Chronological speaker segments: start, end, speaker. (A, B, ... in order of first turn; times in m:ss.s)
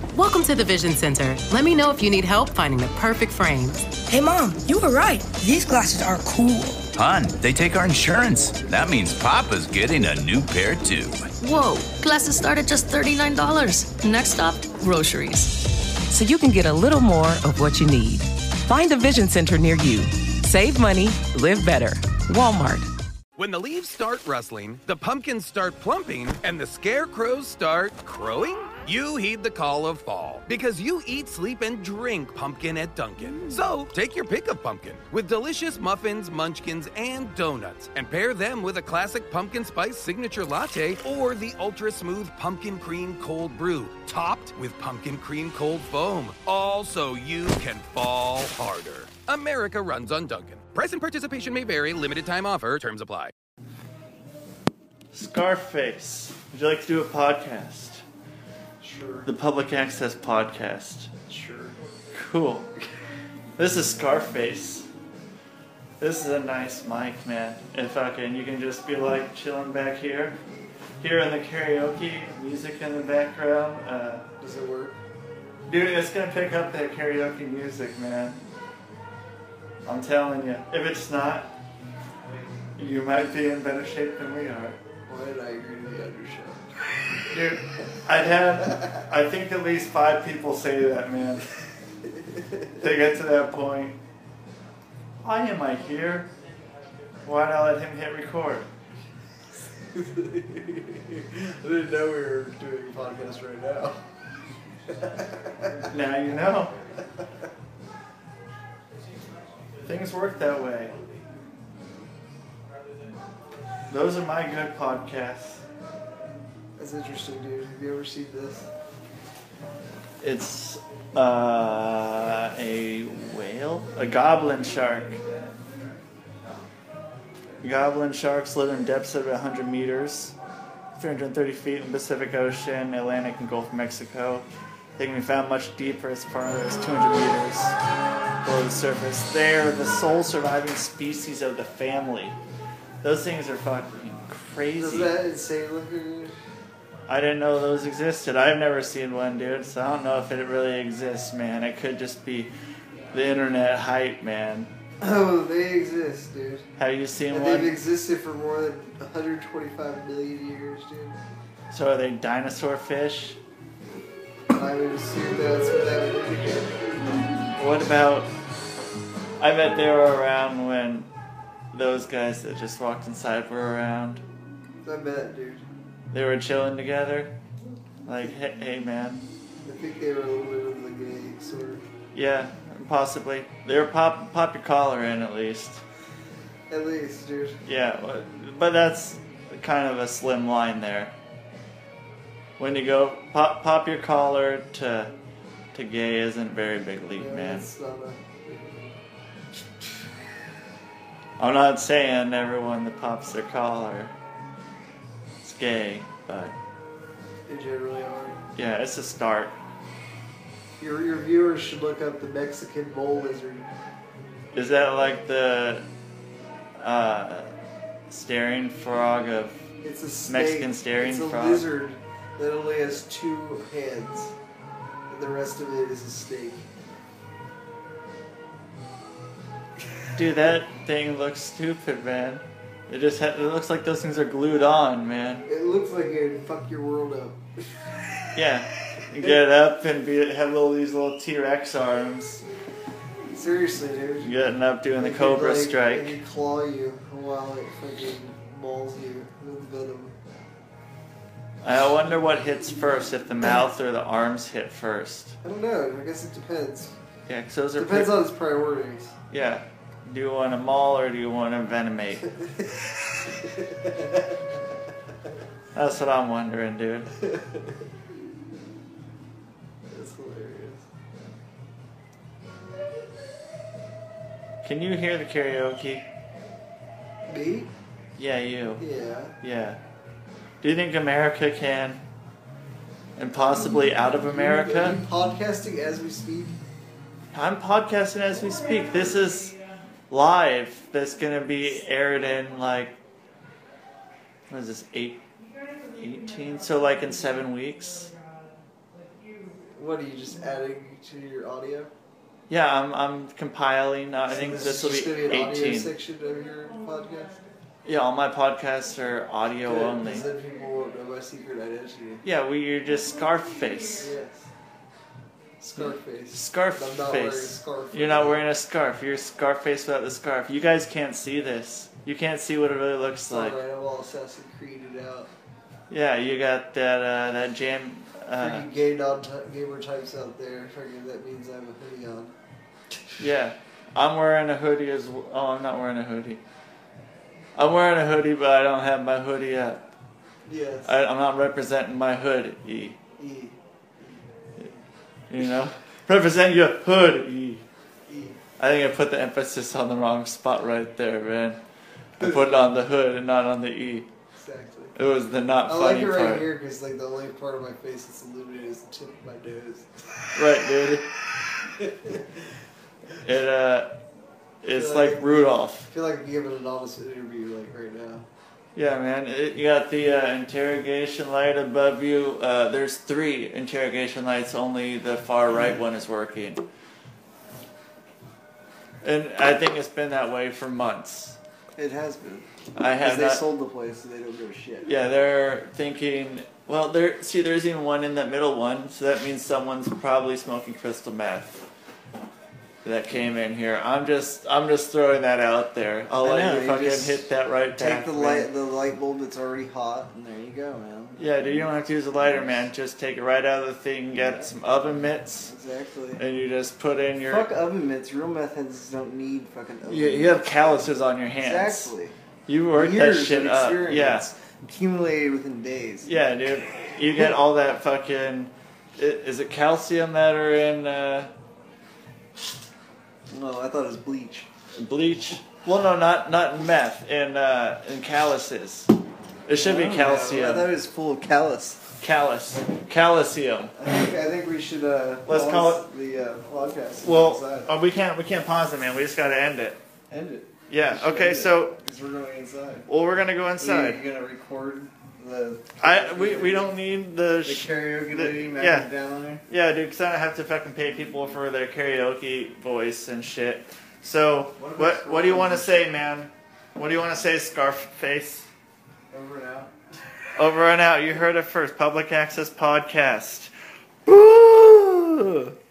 0:00.1-0:04.0 A
0:04.1-0:06.8 B
0:06.9-0:11.3 C
0:11.4-0:15.6 D
0:16.1-0:22.9 E
0:23.4-0:53.3 F
0:55.1-0:58.0 G
0:58.8-0:59.3 H
0:59.2-1:01.1 G
1:01.3-1:01.8 H
1:02.1-1:02.7 G
1:03.6-1:04.9 G
1:06.0-1:10.4 G
1:11.0-1:14.2 G
1:14.4-1:15.0 H
1:15.7-1:18.4 G
1:19.8-1:21.5 G
1:22.8-1:24.8 G
1:25.0-1:26.7 H
1:27.3-1:31.4 G
1:32.3-1:32.7 H
1:32.8-1:34.0 G
1:35.2-1:36.3 G
1:37.2-1:38.7 G
1:39.9-1:44.0 H
1:45.1-1:45.8 H
1:45.9-1:46.7 G
1:49.8-1:50.9 G
1:53.9-1:55.6 G
1:56.8-1:58.7 H
2:00.2-2:05.2 G
2:07.6-2:10.3 G
2:11.0-2:14.4 G
2:15.0-2:17.7 G
2:18.4-2:22.4 G
2:23.0-2:25.1 G
2:24.8-2:26.3 H
2:27.1-2:32.5 G
2:33.1-2:34.7 G
2:35.0-2:36.7 H
2:36.8-2:37.8 G
2:37.3-2:41.2 H
2:41.7-2:43.4 G
2:44.5-2:46.7 H
2:47.6-2:48.3 G
2:49.4-2:51.1 G
2:51.7-2:54.2 G
2:54.8-2:55.6 H
2:56.1-2:57.3 G
2:58.1-2:59.2 G
2:59.6-3:01.8 H
3:02.1-3:05.8 G
3:06.7-3:07.6 H
3:07.6-3:11.1 G
3:12.6-3:15.1 G
3:15.7-3:17.7 G
3:17.1-3:18.9 H
3:21.4-3:24.1 G
3:25.4-3:26.5 G
3:27.5-3:28.4 H
3:28.6-3:29.5 G
3:30.8-3:33.7 H
3:34.5-3:35.9 G
3:36.8-3:37.5 G
3:38.1-3:39.6 G
3:39.8-3:44.3 H
3:40.2-3:41.6 G
3:45.1-3:46.6 H
3:50.2-3:55.4 G
3:55.4-3:57.9 H
3:58.3-4:02.4 G
4:03.3-4:04.4 H
4:04.2-4:06.2 G
4:05.0-4:10.1 H
4:11.6-4:15.4 G
4:15.4-4:16.9 H
4:17.3-4:18.2 G
4:17.8-4:19.2 H
4:19.3-4:22.3 G
4:22.4-4:22.9 H
4:23.4-4:24.2 H
4:25.7-4:27.1 G
4:27.2-4:27.6 H
4:29.9-4:30.8 H
4:34.6-4:36.1 G
4:37.3-4:37.7 H
4:38.2-4:38.8 G
4:38.8-4:39.4 H
4:39.4-4:39.8 G
4:40.6-4:42.0 G
4:43.2-4:45.0 G
4:43.3-4:46.6 H
4:47.3-4:49.5 G
4:50.1-4:53.0 G
4:54.5-4:55.2 G
4:55.9-4:58.1 G
4:59.7-5:01.9 H
5:02.5-5:05.9 G
5:04.2-5:07.4 H
5:07.8-5:10.3 G
5:09.6-5:12.2 H
5:12.2-5:14.1 G
5:14.0-5:14.5 H
5:15.6-5:18.4 H
5:15.8-5:23.6 G
5:23.3-5:25.3 H
5:25.9-5:28.6 G
5:28.4-5:32.3 H
5:33.2-5:36.4 G
5:37.6-5:39.8 G
5:40.4-5:41.0 H
5:40.8-5:43.0 G
5:43.2-5:44.2 H
5:45.3-5:47.6 G
5:48.1-5:48.4 H
5:48.6-5:51.6 G
5:52.2-5:52.8 H
5:52.2-5:54.1 G
5:54.3-5:54.9 H
5:55.0-5:56.4 G
5:55.6-5:59.9 H
6:00.3-6:01.0 G
6:01.8-6:02.2 H
6:03.2-6:03.9 G
6:04.6-6:05.9 G
6:04.7-6:08.3 H
6:08.8-6:16.6 G
6:15.5-6:15.8 H
6:19.0-6:21.4 G
6:21.8-6:24.9 H
6:22.8-6:23.4 G
6:24.8-6:31.7 G
6:32.8-6:38.5 G
6:36.2-6:42.7 H
6:41.2-6:45.5 G
6:44.1-6:44.6 H
6:45.4-6:46.2 H
6:46.2-6:47.5 G
6:47.2-6:52.1 H
6:49.8-6:51.9 G
6:52.5-6:54.2 G
6:52.7-6:56.1 H
6:56.0-7:01.3 G
7:03.3-7:04.5 H
7:04.8-7:08.9 G
7:09.5-7:10.7 G
7:09.6-7:11.8 H
7:12.0-7:13.7 G
7:13.8-7:17.7 H
7:15.2-7:15.9 G
7:17.0-7:19.8 G
7:20.1-7:22.9 H
7:20.7-7:21.8 G
7:22.9-7:24.0 G
7:23.6-7:26.8 H
7:25.8-7:28.9 G
7:27.4-7:29.4 H
7:29.5-7:38.5 G
7:34.6-7:36.0 H
7:39.1-7:39.7 H
7:40.4-7:43.5 G
7:44.1-7:45.5 G